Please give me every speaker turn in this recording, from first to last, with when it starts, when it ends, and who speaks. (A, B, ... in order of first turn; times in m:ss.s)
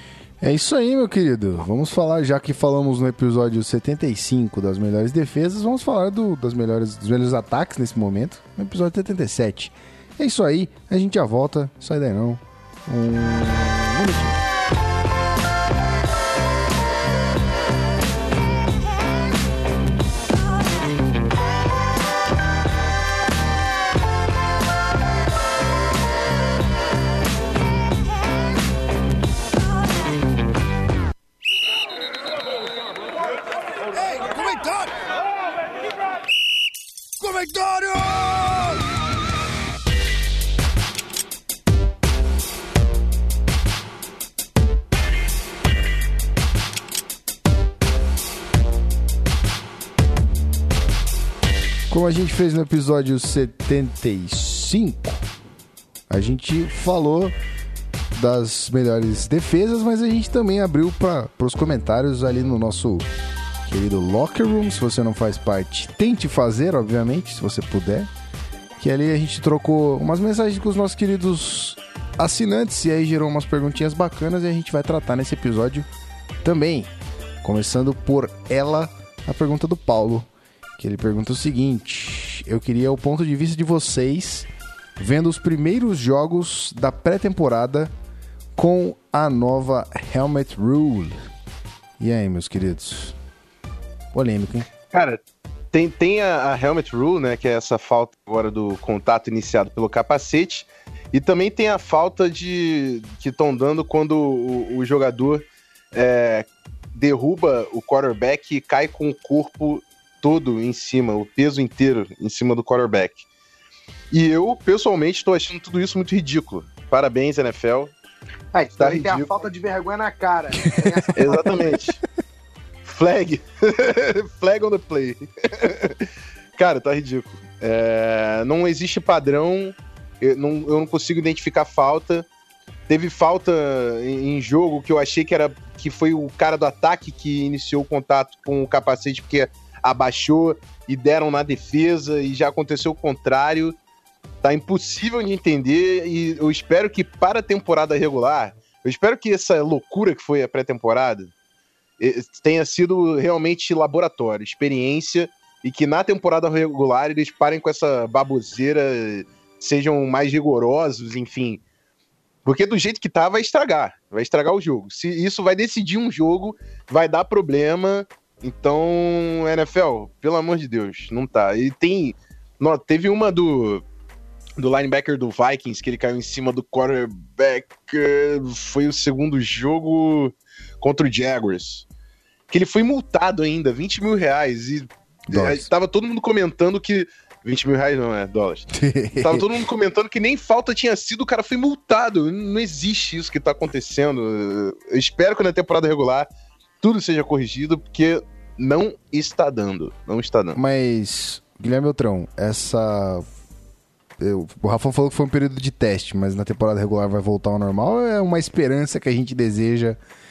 0:00.4-0:14.4 A
0:33.9-0:35.0 A
0:37.2-0:38.8 A
0:51.9-0:55.2 A
0:56.1-0:57.3 A
0:58.1-1:03.1 A
1:03.6-1:08.1 A
1:08.8-1:15.9 A
1:16.4-1:16.9 A
1:17.4-1:27.9 A
1:28.6-1:31.1 A
1:32.0-1:33.2 A
1:34.1-1:34.7 A
1:34.9-1:35.2 B
1:35.7-1:53.2 B
1:54.1-1:57.9 B
1:58.5-2:01.6 C
1:58.8-1:59.3 B
2:00.7-2:01.8 A
2:01.1-2:02.0 B
2:02.8-2:12.2 B
2:12.9-2:23.8 B
2:24.4-2:31.3 B
2:32.0-2:41.6 B
2:42.4-2:53.8 B
2:54.6-3:01.9 B
3:02.5-3:16.3 B
3:05.3-3:05.7 A
3:08.7-3:09.5 A
3:16.8-3:20.6 B
3:20.6-3:23.2 A
3:24.2-3:30.0 A